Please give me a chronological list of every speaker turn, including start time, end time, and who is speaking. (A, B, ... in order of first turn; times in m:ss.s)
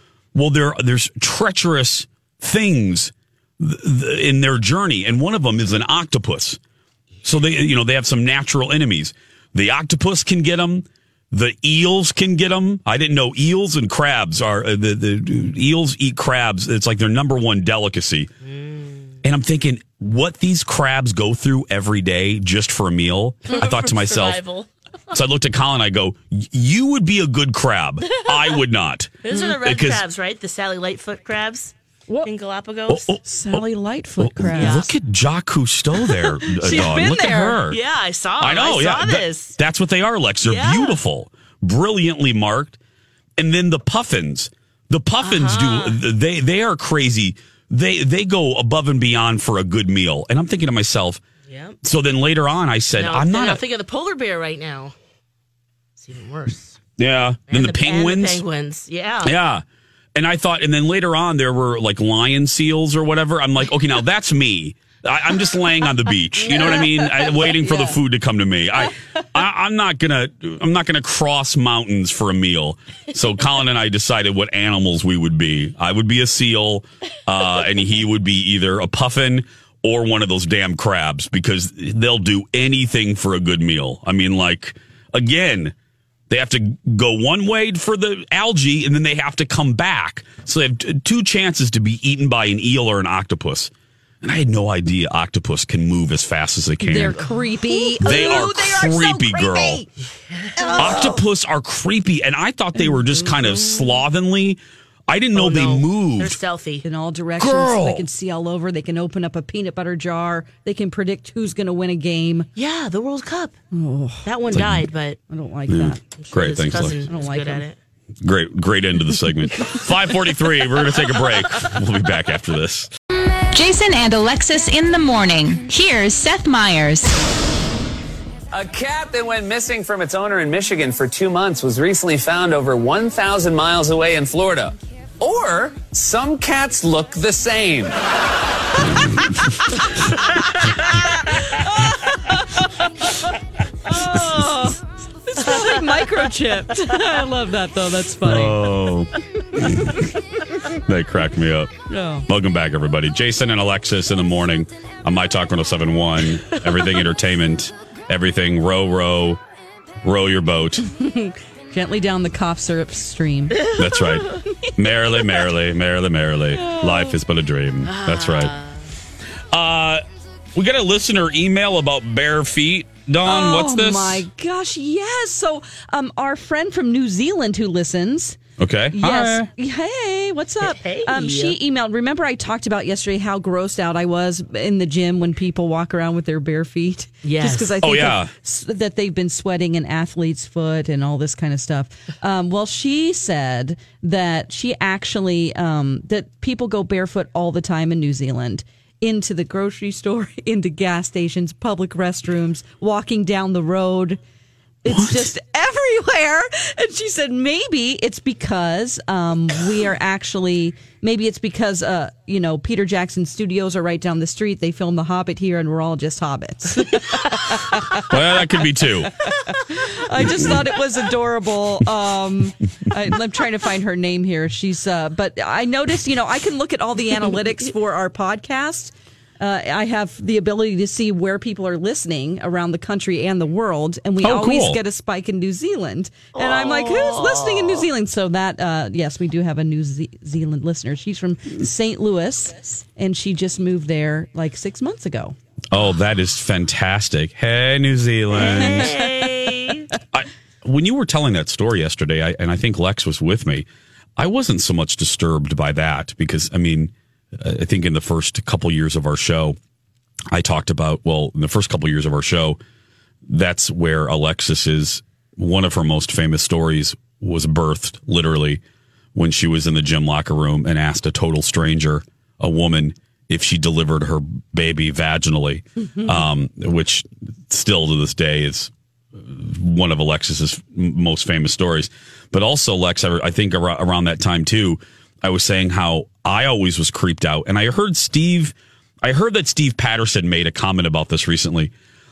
0:00.3-0:06.6 A
0:07.2-0:18.3 A
0:18.5-0:19.1 B
0:19.2-0:24.4 A
0:23.5-0:24.7 B
0:25.1-0:30.0 A
0:29.2-0:33.1 B
0:32.9-0:33.6 A
0:33.2-0:34.8 C
0:34.2-0:37.8 A
0:34.5-0:34.9 B
0:36.0-0:37.6 C
0:37.7-0:39.5 B
0:38.4-0:42.8 A
0:40.4-0:41.0 B
0:43.4-0:51.2 A
0:45.2-0:46.0 B
0:51.5-0:51.8 B
0:51.8-0:53.6 A
0:53.0-0:54.9 B
0:56.0-0:56.8 B
0:57.0-0:58.4 A
0:57.5-0:59.3 B
0:59.2-0:59.6 A
1:00.2-1:25.7 A
1:26.3-1:33.7 A
1:34.2-1:37.2 A
1:36.8-1:39.9 C
1:37.7-1:39.8 A
1:40.3-1:41.1 B
1:40.6-1:41.2 C
1:40.8-1:46.4 A
1:43.4-1:44.0 B
1:45.3-1:46.8 B
1:46.8-1:52.5 C
1:47.4-1:48.1 A
1:52.5-1:53.6 B
1:53.7-1:54.2 C
1:54.2-1:55.2 B
1:54.5-1:54.9 A
1:55.3-1:56.0 C
1:55.7-1:57.0 A
1:56.2-1:57.8 B
1:57.0-1:57.6 C
1:58.2-2:02.9 A
2:03.5-2:07.1 D
2:08.5-2:14.7 E
2:09.2-2:11.0 D
2:11.9-2:12.2 D
2:15.2-2:15.9 D
2:15.3-2:17.9 E
2:21.6-2:22.7 C
2:23.9-2:28.7 C
2:28.2-2:30.0 A
2:30.7-2:31.7 A
2:31.9-2:32.3 C
2:32.3-2:39.4 A
2:40.0-2:40.8 A
2:40.9-2:43.6 C
2:43.8-2:48.5 A
2:43.8-2:44.4 B
2:46.5-2:47.2 C
2:47.8-2:48.9 B
2:49.5-2:50.0 A
2:50.5-2:54.2 A
2:53.2-2:58.4 C
2:58.6-2:59.5 A
2:58.9-3:24.2 C
3:00.6-3:01.6 B
3:07.2-3:07.8 B
3:07.8-3:08.3 A
3:24.8-3:38.1 C
3:24.8-3:25.3 A
3:38.0-3:39.1 A
3:39.6-4:05.4 C
3:40.2-3:40.6 A
3:54.2-3:54.8 A
3:56.3-3:57.9 B
4:05.7-4:08.9 A
4:08.3-4:09.9 B
4:08.4-4:08.9 C
4:10.1-4:13.6 A
4:14.2-4:19.6 A
4:20.3-4:22.6 A
4:23.3-4:28.6 A
4:29.1-4:51.7 A